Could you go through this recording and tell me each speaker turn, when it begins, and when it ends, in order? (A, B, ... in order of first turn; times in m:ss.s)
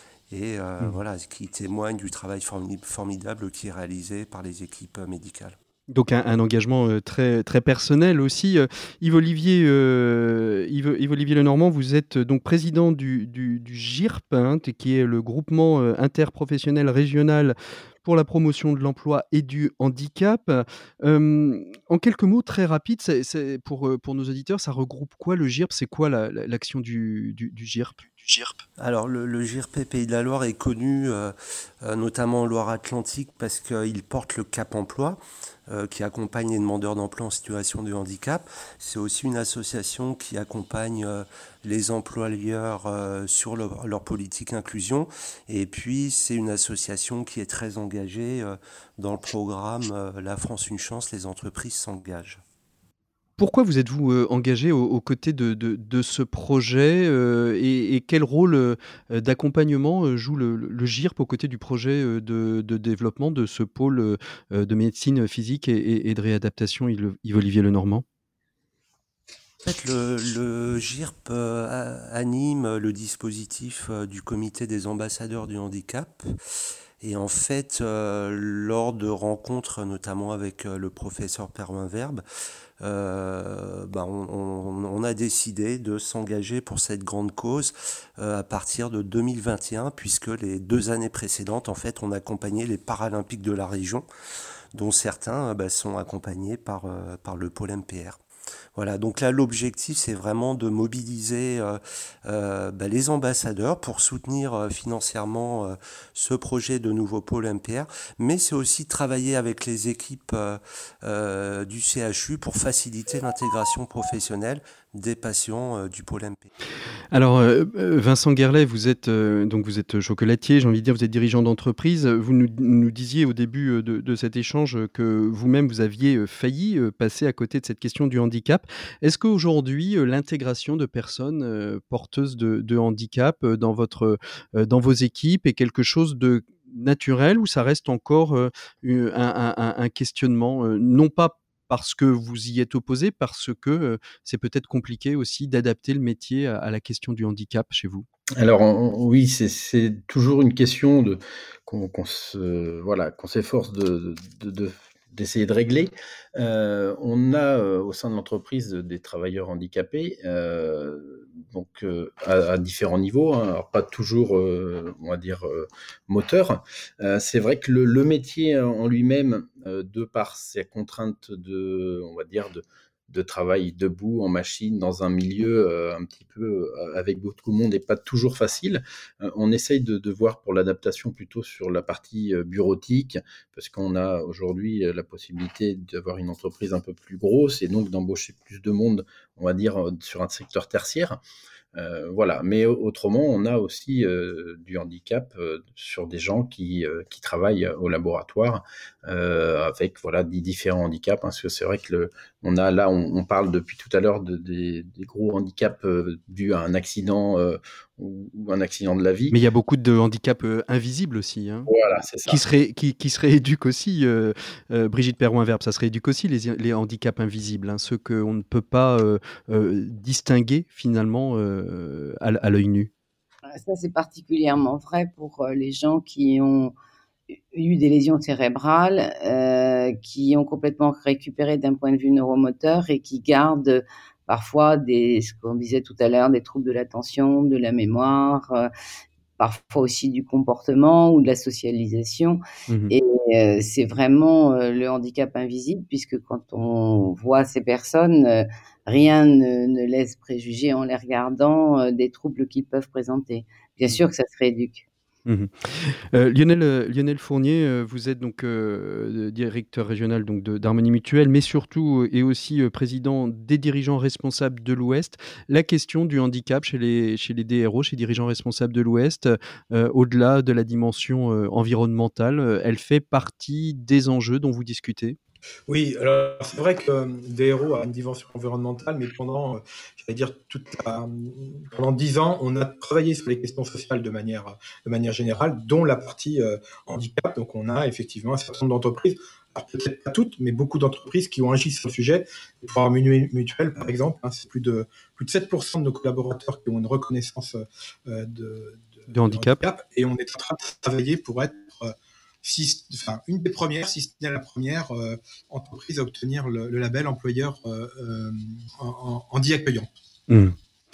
0:00.3-0:05.6 A
0:05.9-0:28.6 B
0:28.8-0:52.4 A
0:53.4-1:08.0 B
1:09.6-1:16.2 A
1:17.0-1:22.2 A
1:22.8-1:34.1 A
1:34.7-1:38.2 A
1:38.7-1:56.5 A
1:57.1-2:28.1 B
2:28.4-3:11.2 C
3:11.7-3:29.4 C
3:29.3-3:31.7 B
3:31.7-3:32.4 C
3:32.2-3:42.9 B
3:43.5-3:46.7 D
3:47.5-3:58.7 D
3:59.4-4:14.8 D
4:02.7-4:02.9 B
4:15.2-4:35.2 B
4:35.7-5:09.9 E
4:59.1-4:59.6 B
5:10.3-5:10.6 B